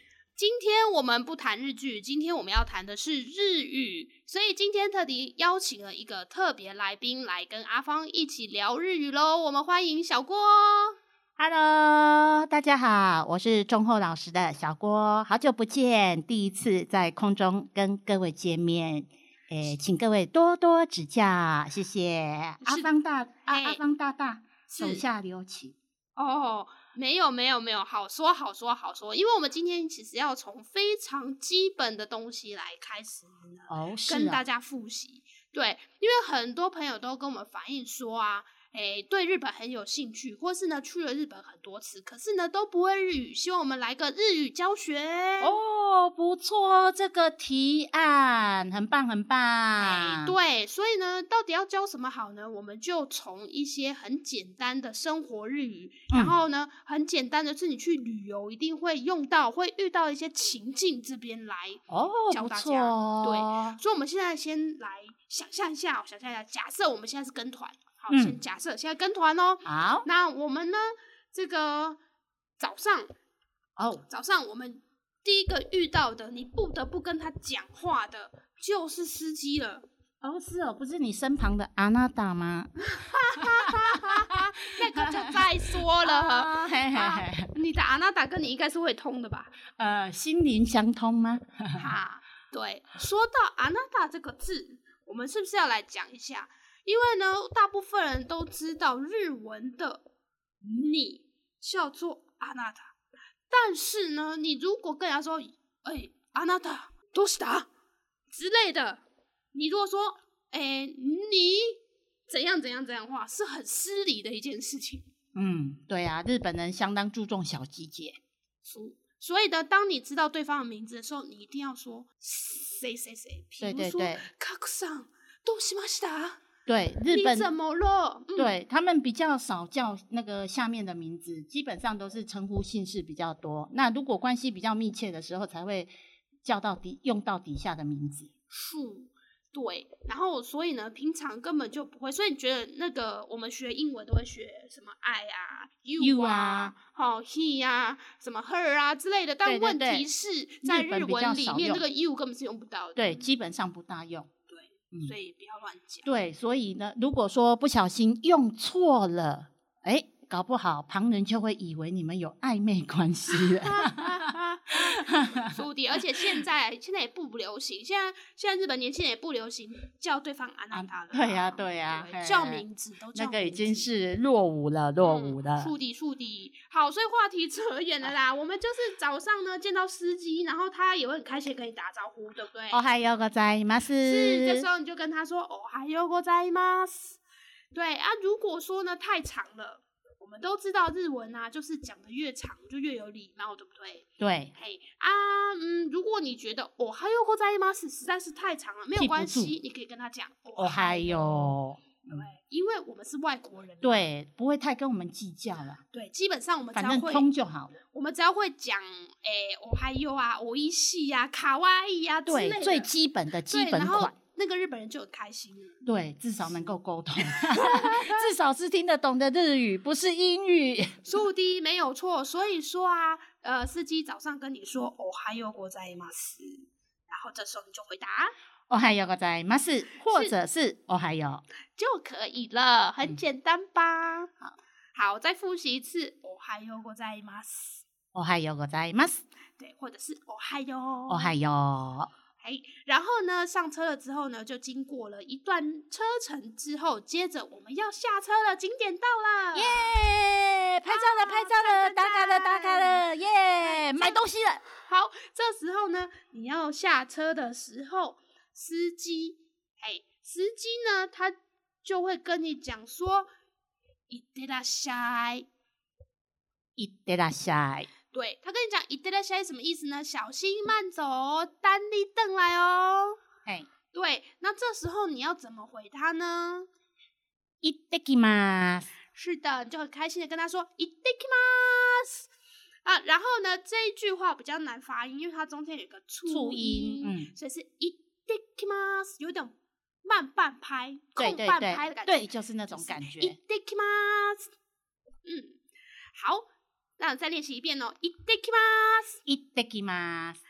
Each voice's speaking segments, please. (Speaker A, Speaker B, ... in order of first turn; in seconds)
Speaker A: 0.4-11.0, 22.6-22.9, 23.5-23.8, 24.7-25.0, 26.2-45.6, 49.8-72.0, 72.6-73.1, 74.1-79.9, 82.9-89.5, 91.8-100.0, 100.6-102.9, 103.5-107.7, 108.3-109.0, 109.5-115.1, 118.6-126.4, 127.1-128.5, 138.5-153.3, 154.5-156.1, 163.6-173.9, 175.0-182.9, 184.0-187.2, 187.7-201.6, 202.1-204.0, 205.9-207.3, 207.9-212.9, 213.5-215.8, 217.2-218.3, 221.1-228.3, 230.1-230.4, 231.8-234.3, 234.9-237.8, 239.6-241.3, 242.4-249.9, 250.8-253.0, 253.6-254.2, 254.8-263.3, 264.1-265.5, 268.1-273.2, 273.9-276.7, 279.1-282.3, 282.9-294.5, 295.3-295.6, 296.1-296.5, 297.0-299.2
Speaker B: 11.4-25.8, 33.7-34.4, 45.4-50.3, 56.1-56.4, 61.9-63.8, 68.1-68.4, 69.6-70.1, 73.8-74.0, 80.2-82.7, 83.3-85.5, 86.0-87.5, 89.8-91.9, 115.3-118.2, 123.6-124.2, 126.7-127.5, 128.4-135.9, 136.4-138.3, 146.0-146.7, 149.4-150.1, 150.6-151.8, 153.0-154.3, 156.1-165.5, 170.7-172.6, 173.1-175.7, 182.7-184.7, 194.2-194.5, 198.9-199.5, 200.6-202.3, 203.8-205.8, 206.8-207.8, 212.3-214.1, 215.8-221.1, 228.7-231.4, 238.1-239.2, 241.1-242.1, 249.6-254.6, 266.8-267.9, 277.6-278.9, 286.3-287.3, 291.2-293.4, 299.3-300.4